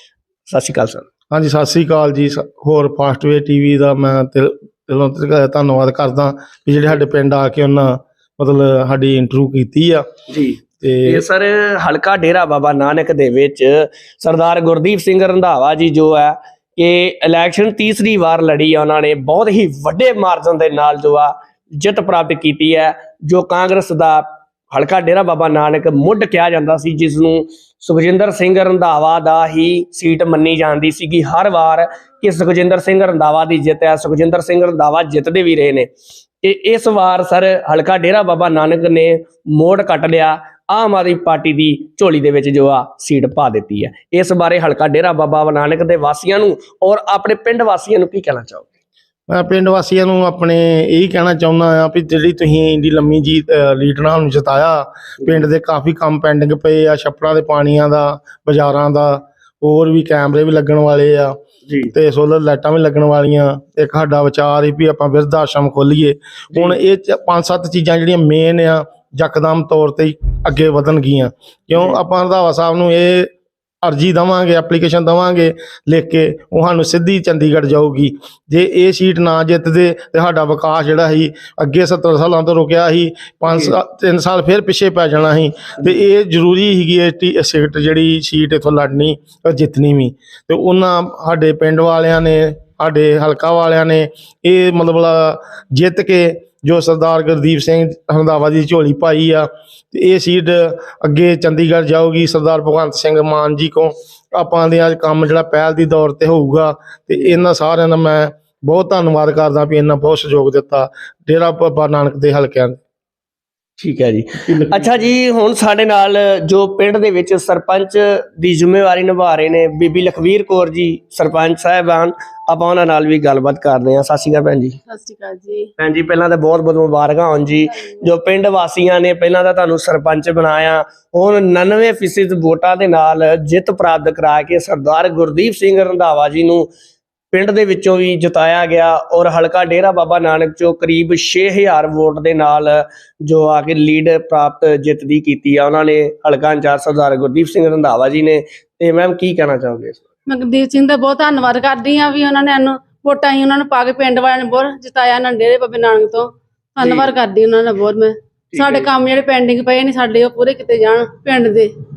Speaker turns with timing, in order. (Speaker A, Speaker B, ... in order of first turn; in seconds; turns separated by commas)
Speaker A: 0.5-1.1, Speaker B: 1.3-10.0, Speaker A: 10.3-35.9, Speaker B: 10.8-11.2, Speaker A: 36.4-48.7, Speaker B: 49.3-61.3, Speaker A: 61.7-61.9, Speaker B: 61.9-73.3, Speaker B: 73.8-112.8, Speaker A: 113.8-124.8, Speaker C: 124.9-125.7, Speaker A: 125.8-136.7, Speaker A: 137.3-150.0, Speaker C: 150.3-161.7, Speaker A: 156.8-157.1, Speaker A: 158.5-158.9